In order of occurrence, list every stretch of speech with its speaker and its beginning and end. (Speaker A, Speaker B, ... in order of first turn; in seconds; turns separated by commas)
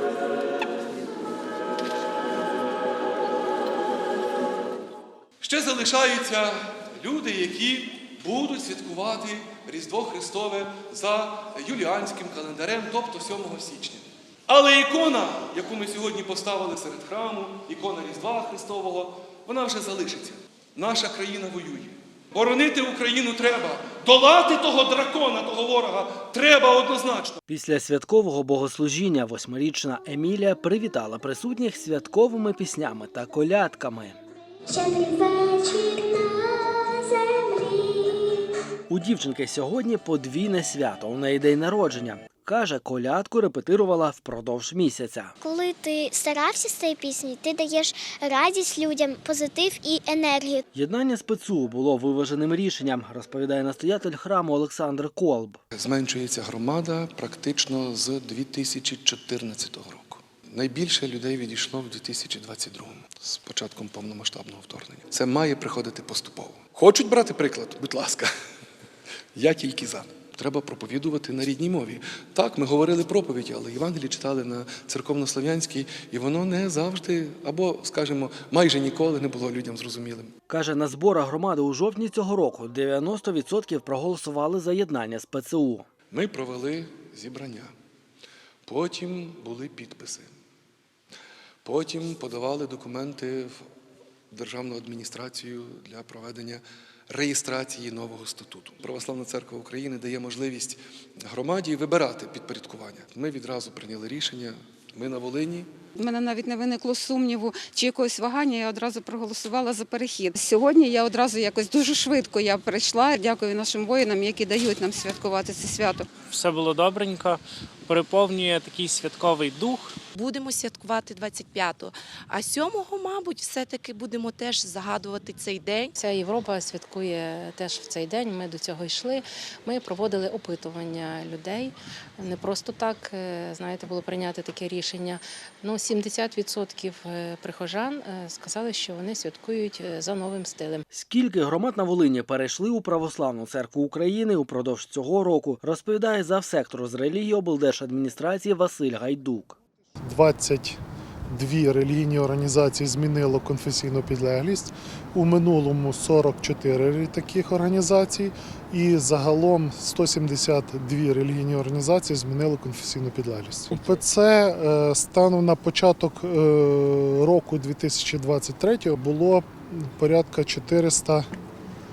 Speaker A: 5.4-27.4, Speaker B: 27.5-34.2, Speaker C: 34.7-38.5, Speaker B: 38.9-45.4, Speaker C: 45.4-50.6, Speaker B: 50.7-55.6, Speaker A: 55.7-68.3, Speaker A: 69.3-80.3, Speaker B: 80.5-85.8, Speaker A: 86.1-87.7, Speaker A: 88.7-90.3, Speaker A: 91.6-93.6, Speaker A: 94.3-105.7, Speaker D: 106.0-116.1, Speaker E: 116.3-120.0, Speaker F: 120.2-121.8, Speaker F: 122.6-125.9, Speaker G: 125.9-140.8, Speaker B: 140.9-149.6, Speaker H: 150.1-150.8, Speaker H: 151.3-171.2